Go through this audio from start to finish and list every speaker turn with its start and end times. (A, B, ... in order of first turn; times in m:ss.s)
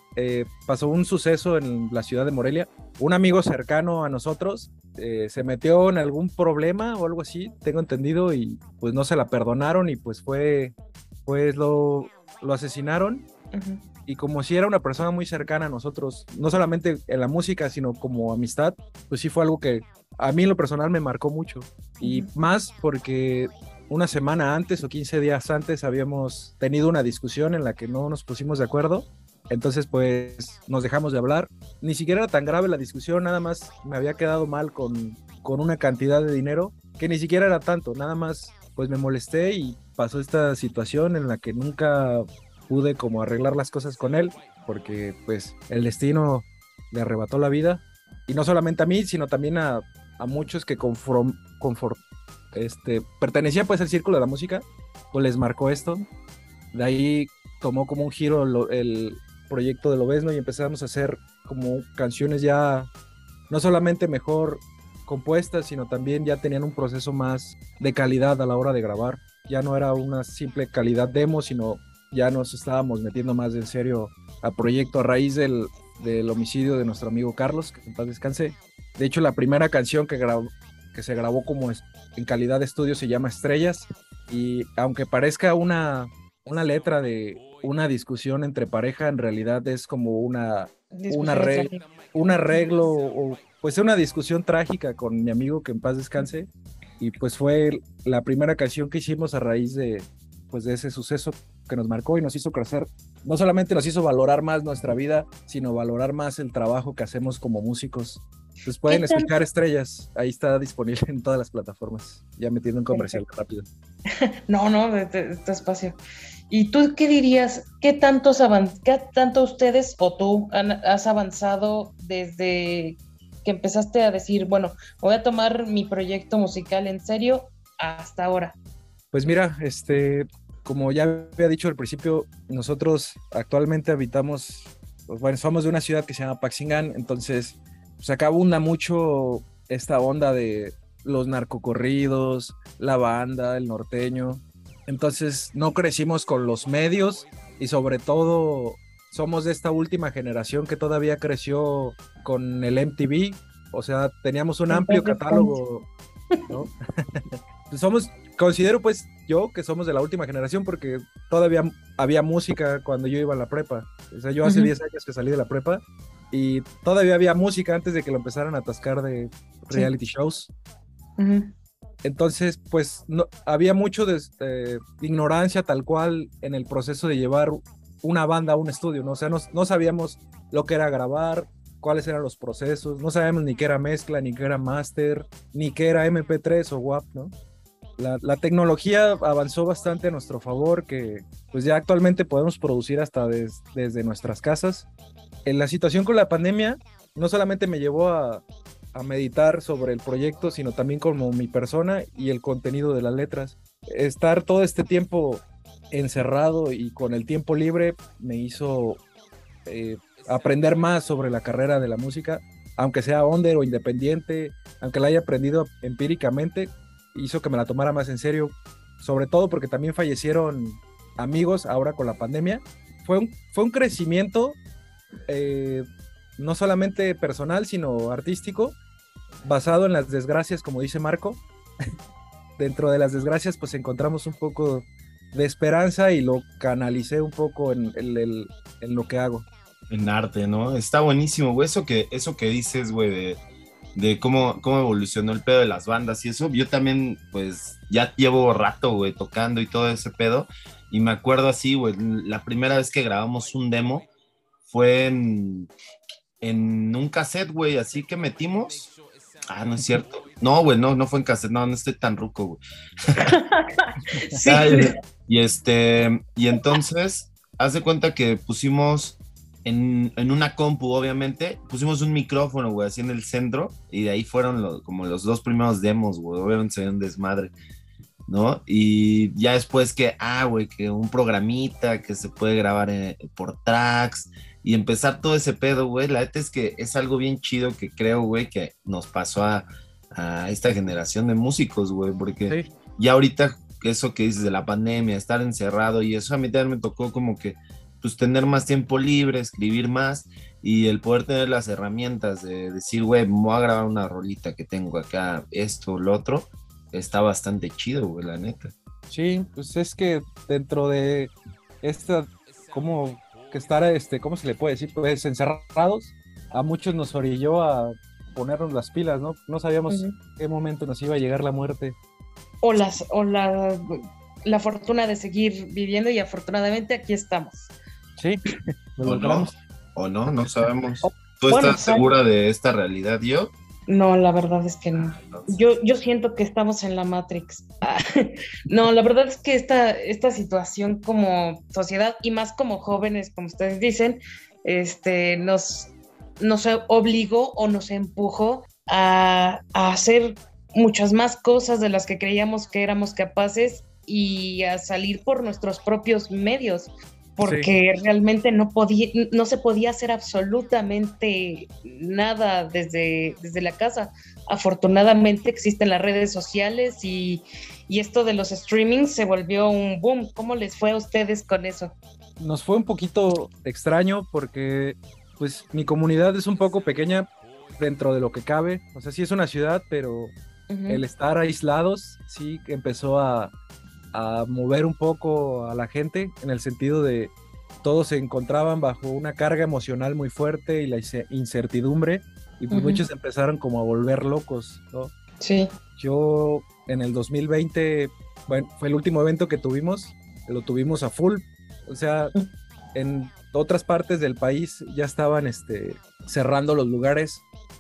0:00.2-0:10.8 A
0:11.3-0:13.2 A
0:13.5-0:13.8 B
0:14.1-0:52.0 A
0:22.0-0:22.3 B
0:52.5-0:56.1 A
0:56.7-1:02.9 A
1:03.5-1:36.5 A
1:31.0-1:31.8 B
1:37.0-1:53.7 A
1:48.9-1:49.3 B
1:52.9-1:53.2 B
1:54.2-1:56.0 B
1:56.5-2:08.6 B
2:09.1-2:35.9 A
2:34.7-2:35.6 B
2:36.5-2:50.5 A
2:44.4-2:44.7 B
2:51.2-2:51.5 B
2:52.0-3:07.3 A
3:08.0-3:14.9 A
3:15.4-3:29.0 A
3:29.7-3:44.6 A
3:45.3-3:45.9 A
3:46.4-3:48.8 A
3:49.4-3:51.4 A
3:52.6-3:59.5 A
3:59.9-4:03.4 C
4:04.0-4:14.1 C
4:14.7-4:15.7 C
4:16.4-4:18.9 C
4:19.5-4:22.6 C
4:23.2-4:24.9 B
4:24.4-4:37.5 C
4:38.3-5:08.7 C
5:09.1-5:22.0 A
5:19.9-5:20.2 B
5:22.6-5:27.7 B
5:29.0-5:29.5 A
5:29.0-5:33.5 C
5:31.0-5:32.0 B
5:33.9-6:12.0 B
5:35.2-5:35.6 C
5:57.4-5:57.7 A
6:12.4-6:20.3 A
6:20.7-6:21.0 B
6:20.9-6:23.5 A
6:24.1-6:35.1 A
6:32.7-6:33.0 B
6:35.4-6:35.7 B
6:36.0-6:42.3 A
6:42.9-6:47.4 A